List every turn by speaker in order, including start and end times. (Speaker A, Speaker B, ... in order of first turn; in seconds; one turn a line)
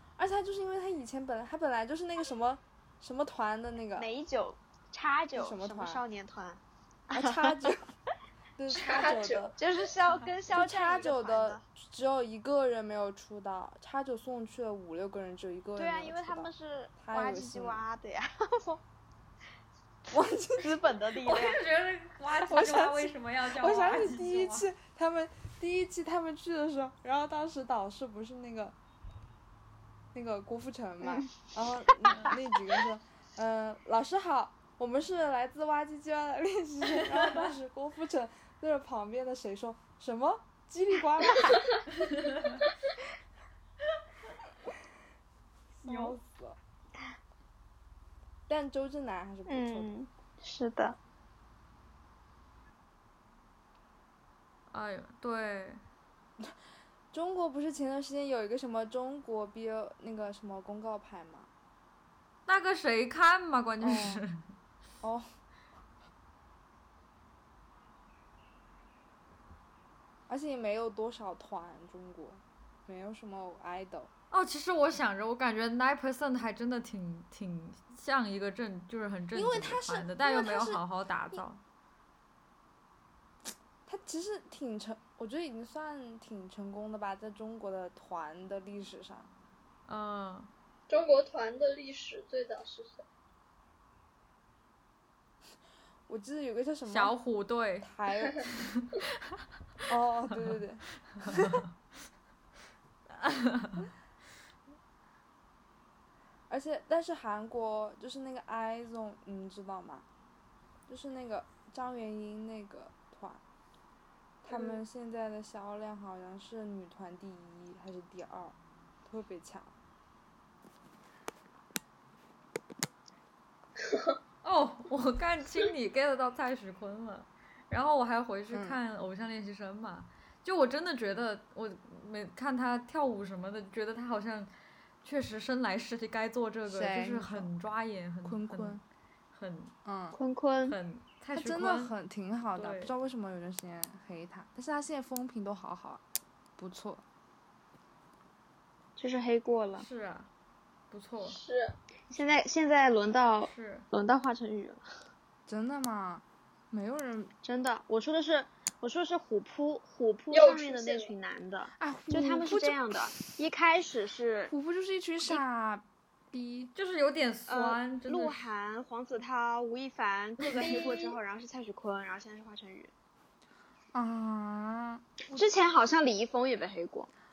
Speaker A: 0.1-4.1
Speaker B: 4.0-7.8
Speaker A: 5.3-6.0
Speaker A: 7.1-7.8
Speaker A: 8.6-9.6
Speaker C: 8.7-9.6
Speaker B: 9.6-11.6
Speaker A: 10.5-17.8
Speaker B: 15.8-18.8
Speaker A: 20.1-20.8
Speaker B: 20.6-21.6
Speaker D: 21.2-24.7
Speaker A: 22.3-28.7
Speaker A: 30.1-41.8
Speaker D: 32.1-32.4
Speaker D: 42.0-42.4
Speaker A: 45.8-46.6
Speaker A: 48.5-49.9
Speaker B: 49.5-51.0
Speaker D: 54.7-55.8
Speaker A: 57.1-61.5
Speaker D: 62.5-64.4
Speaker A: 63.8-64.2
Speaker A: 65.0-65.3
Speaker A: 70.3-74.1
Speaker D: 74.3-81.6
Speaker A: 79.3-80.8
Speaker A: 83.8-89.3
Speaker D: 89.9-90.5
Speaker C: 90.9-93.0
Speaker A: 96.1-97.2
Speaker D: 96.9-97.9
Speaker A: 97.8-98.5
Speaker D: 98.5-99.4
Speaker A: 99.9-101.6
Speaker D: 100.3-100.6
Speaker D: 101.1-101.7
Speaker D: 103.1-103.9
Speaker A: 106.5-110.0
Speaker A: 110.9-113.4
Speaker A: 114.4-119.7
Speaker C: 114.5-114.8
Speaker C: 123.8-124.2
Speaker D: 124.4-134.5
Speaker A: 128.5-128.8
Speaker D: 135.0-138.8
Speaker A: 136.7-137.5
Speaker A: 138.2-138.8
Speaker D: 139.3-139.7
Speaker A: 139.8-140.2
Speaker B: 140.1-140.8
Speaker D: 140.7-141.9
Speaker A: 141.3-146.0
Speaker D: 142.6-142.9
Speaker A: 146.6-147.0
Speaker B: 149.0-149.8
Speaker D: 149.8-150.3
Speaker D: 150.9-151.4
Speaker C: 151.2-151.8
Speaker B: 152.1-154.8
Speaker D: 153.4-153.9
Speaker A: 155.5-157.3
Speaker B: 157.4-164.5
Speaker C: 160.3-161.1
Speaker A: 161.8-163.2
Speaker A: 164.5-166.7
Speaker D: 166.7-168.4
Speaker B: 167.5-172.9
Speaker C: 170.6-171.2
Speaker A: 173.9-175.0
Speaker B: 175.3-177.1